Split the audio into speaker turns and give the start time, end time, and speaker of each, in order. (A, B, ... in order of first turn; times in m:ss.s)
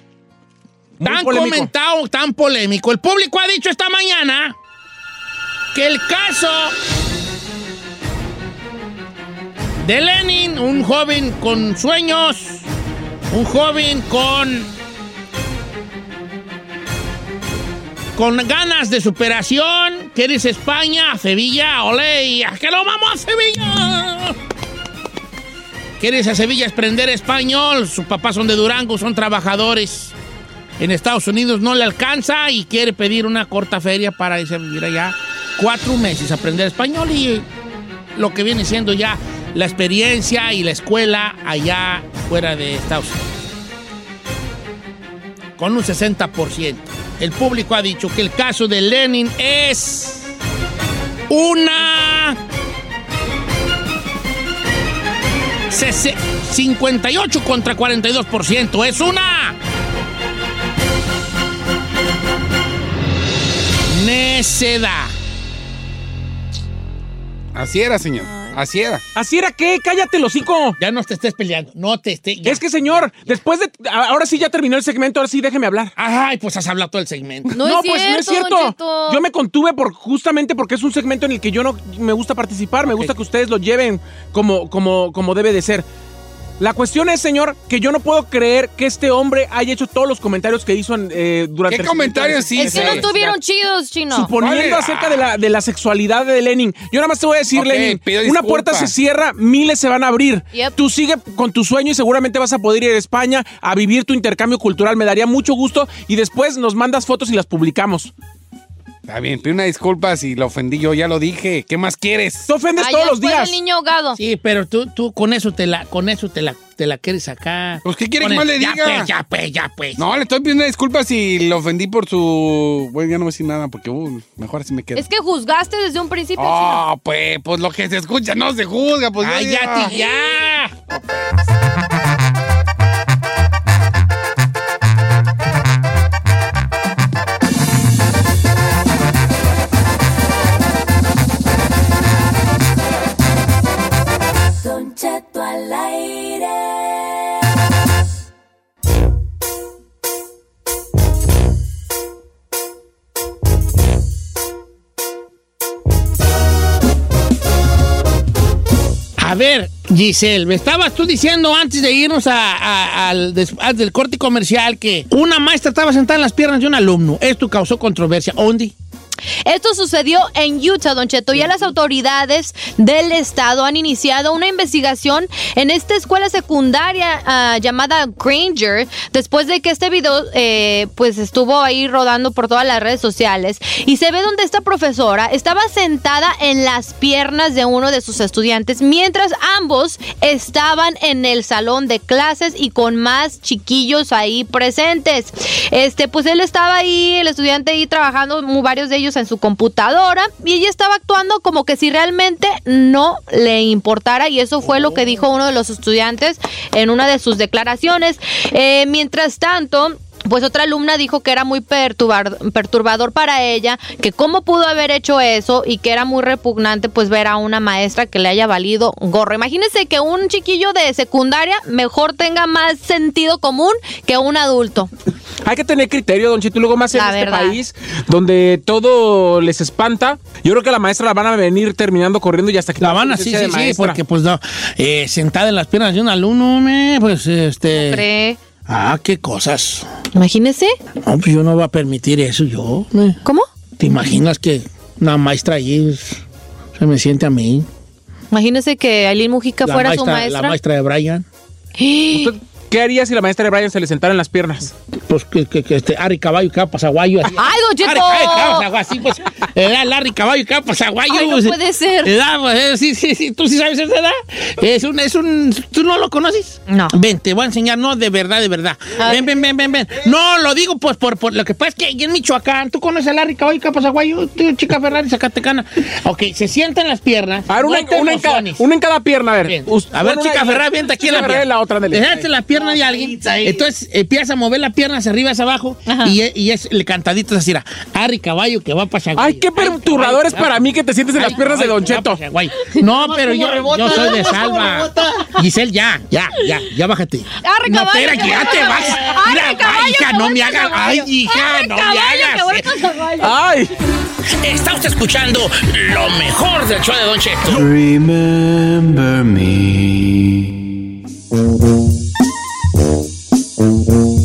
0:01.0-0:04.6 A
0:01.0-0:01.7 B
0:05.7-0:06.8 A
0:09.8-0:12.7 A
0:13.3-0:14.7 A
0:18.2-0:24.4 A
0:26.0-0:30.1 A
0:30.8-0:37.5 A
0:38.2-0:43.4 A
0:45.6-0:50.3 A
0:51.3-0:52.4 A
0:55.7-0:59.6 A
1:03.9-1:05.1 A
1:07.5-1:09.0 C
1:09.2-1:10.8 B
1:10.8-1:13.4 A
1:12.4-1:15.9 B
1:16.0-1:17.6 A
1:17.5-1:25.9 B
1:17.6-1:19.2 D
1:22.8-1:23.1 A
1:26.6-1:33.3 B
1:31.7-1:33.1 C
1:32.6-1:34.3 D
1:34.1-1:48.1 B
1:34.4-1:35.3 C
1:37.5-1:38.9 C
1:49.1-1:52.5 C
1:52.5-1:53.6 B
1:52.8-1:54.2 D
1:54.2-2:00.0 A
1:57.8-1:59.1 C
2:00.0-2:05.0 C
2:05.0-2:06.8 D
2:06.4-2:10.0 C
2:09.2-2:10.7 A
2:10.9-2:11.3 C
2:24.5-2:27.2 E
2:39.2-2:48.8 A
2:49.4-3:44.9 D
3:24.6-3:25.2 A
3:45.4-3:54.0 B
3:46.9-3:47.6 D
3:52.8-3:58.0 A
3:57.7-3:58.4 D
3:58.7-3:59.9 A
4:00.1-4:00.7 D
4:01.1-4:03.2 A
4:03.8-4:06.2 A
4:06.8-4:07.7 A
4:08.3-4:10.6 D
4:09.6-4:11.2 A
4:11.8-4:12.3 D
4:12.1-4:14.7 B
4:15.1-4:38.7 A
4:17.3-4:18.7 D
4:21.1-4:22.1 D
4:37.5-4:42.3 B
4:39.4-4:50.6 A
4:45.9-4:46.1 D
4:49.2-4:52.2 B
4:51.2-5:02.8 A
4:57.4-5:03.3 D
5:03.2-5:03.7 B
5:04.4-5:07.7 A